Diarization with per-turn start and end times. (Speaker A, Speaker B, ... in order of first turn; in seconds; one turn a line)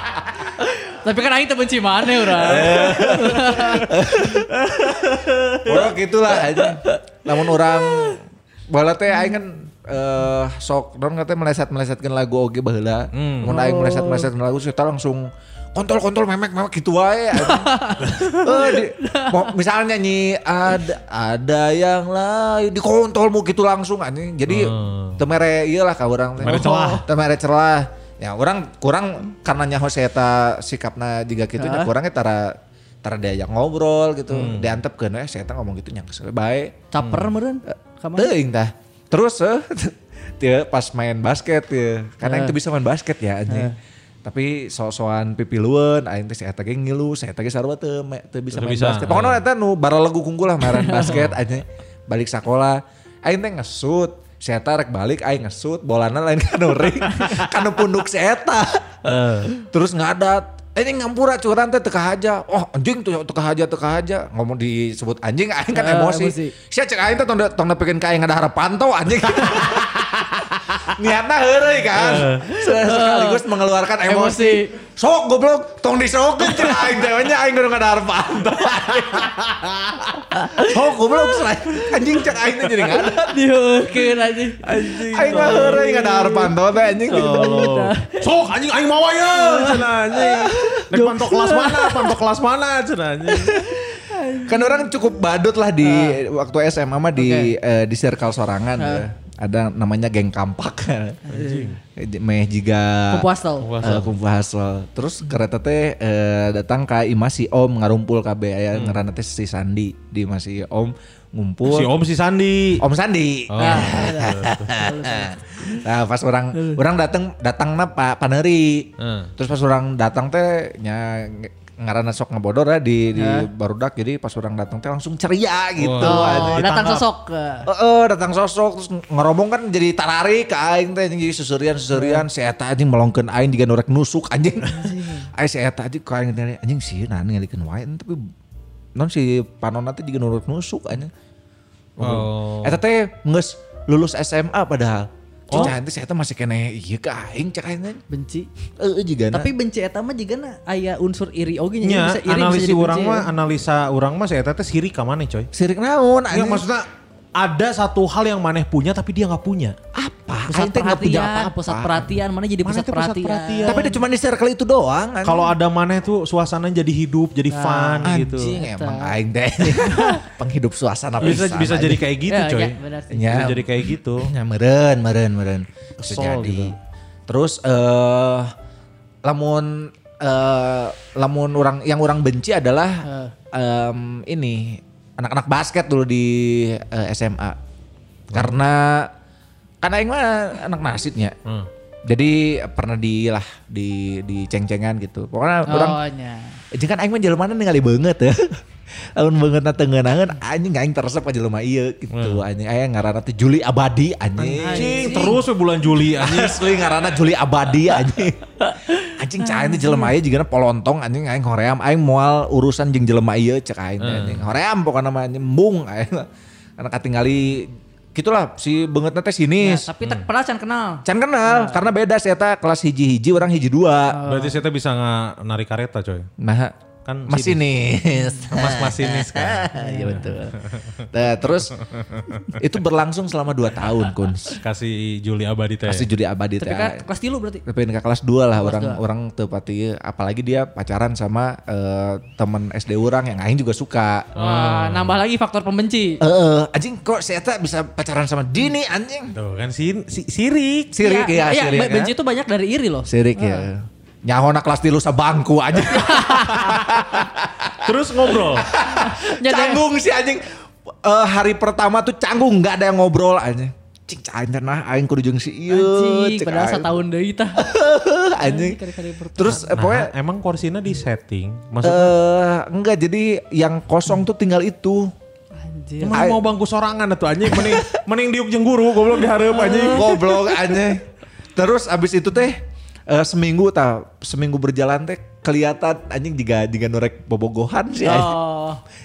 Speaker A: 0.6-3.9
Speaker B: 2.3-4.5
Speaker C: 2.4-3.7
Speaker C: 4.5-5.8
Speaker B: 5.6-36.8
Speaker A: 6.5-6.9
Speaker C: 13.1-13.6
Speaker A: 13.4-14.3
Speaker A: 17.3-19.5
Speaker C: 24.5-25.2
Speaker C: 26.4-27.0
Speaker A: 26.4-27.0
Speaker A: 31.6-31.9
Speaker C: 34.3-34.8
Speaker A: 36.9-38.3
Speaker C: 37.0-37.3
Speaker B: 37.7-79.5
Speaker A: 42.2-42.5
Speaker A: 43.5-43.7
Speaker C: 48.5-49.4
Speaker A: 50.7-51.1
Speaker C: 51.1-51.3
Speaker C: 59.0-59.5
Speaker A: 65.7-66.5
Speaker C: 71.9-72.4
Speaker A: 72.5-73.4
Speaker A: 74.0-74.7
Speaker C: 78.5-80.1
Speaker A: 80.3-80.7
Speaker B: 80.5-83.4
Speaker A: 83.1-86.5
Speaker C: 84.6-86.0
Speaker B: 85.1-87.6
Speaker C: 87.1-93.8
Speaker A: 87.1-88.2
Speaker A: 89.3-92.2
Speaker A: 93.3-94.9
Speaker B: 94.4-101.3
Speaker A: 95.8-96.2
Speaker A: 97.2-97.5
Speaker A: 98.8-99.1
Speaker A: 101.3-101.7
Speaker C: 101.3-101.8
Speaker B: 101.9-103.3
Speaker A: 103.1-103.7
Speaker C: 103.6-104.1
Speaker B: 103.8-111.9
Speaker C: 108.7-109.0
Speaker C: 111.7-112.8
Speaker B: 112.8-126.7
Speaker C: 113.5-114.7
Speaker A: 113.6-115.8
Speaker C: 119.0-119.3
Speaker A: 123.2-123.5
Speaker C: 125.8-127.0
Speaker A: 126.0-127.7
Speaker B: 127.7-138.3
Speaker A: 131.9-132.2
Speaker A: 134.7-135.3
Speaker B: 138.9-141.1
Speaker B: 142.0-148.0
Speaker C: 142.0-142.8
Speaker C: 145.5-145.8
Speaker A: 148.1-148.5
Speaker B: 148.8-149.5
Speaker A: 149.3-153.3
Speaker C: 151.8-155.5
Speaker B: 155.5-156.6
Speaker C: 156.3-156.8
Speaker C: 157.4-159.7
Speaker B: 159.9-162.1
Speaker A: 160.5-163.9
Speaker C: 162.6-163.9
Speaker B: 163.7-165.5
Speaker C: 165.2-168.6
Speaker A: 167.5-169.1
Speaker B: 168.0-172.0
Speaker A: 169.7-170.2
Speaker C: 171.2-174.3
Speaker A: 172.3-173.5
Speaker B: 173.1-176.7
Speaker C: 176.0-176.8
Speaker B: 177.3-178.5
Speaker B: 179.2-187.6
Speaker A: 183.0-183.3
Speaker B: 188.3-189.1
Speaker B: 189.8-191.3
Speaker B: 192.1-196.0
Speaker A: 195.7-196.6
Speaker B: 196.7-205.4
Speaker C: 202.1-202.4
Speaker C: 204.4-206.9
Speaker A: 204.6-205.4
Speaker B: 206.1-219.9
Speaker A: 209.4-210.1
Speaker C: 214.0-214.4
Speaker A: 219.6-221.9
Speaker B: 221.0-224.2
Speaker A: 224.1-224.6
Speaker C: 224.2-226.3
Speaker B: 226.4-226.7
Speaker C: 227.0-227.6
Speaker B: 227.3-230.6
Speaker C: 228.5-231.1
Speaker A: 229.7-230.3
Speaker B: 231.1-231.7
Speaker C: 231.8-232.6
Speaker B: 232.5-234.6
Speaker C: 234.6-236.1
Speaker B: 235.8-237.0
Speaker A: 236.6-237.6
Speaker B: 237.7-244.3
Speaker A: 238.6-239.0
Speaker C: 244.3-245.2
Speaker A: 244.4-246.2
Speaker B: 246.2-249.3
Speaker C: 249.3-250.9
Speaker B: 250.9-252.1
Speaker A: 251.0-253.7
Speaker B: 253.1-260.5
Speaker A: 255.9-256.9
Speaker C: 257.8-258.7
Speaker A: 258.8-259.8
Speaker B: 261.0-266.9
Speaker A: 265.7-267.6
Speaker B: 267.6-268.8
Speaker A: 268.4-269.7
Speaker B: 269.4-270.1
Speaker C: 269.6-272.1
Speaker B: 271.8-275.1
Speaker A: 275.6-276.2
Speaker C: 276.0-280.1
Speaker B: 276.1-276.4
Speaker B: 277.5-278.0
Speaker A: 279.5-280.6
Speaker B: 279.9-281.0
Speaker B: 281.6-288.4
Speaker A: 288.0-288.8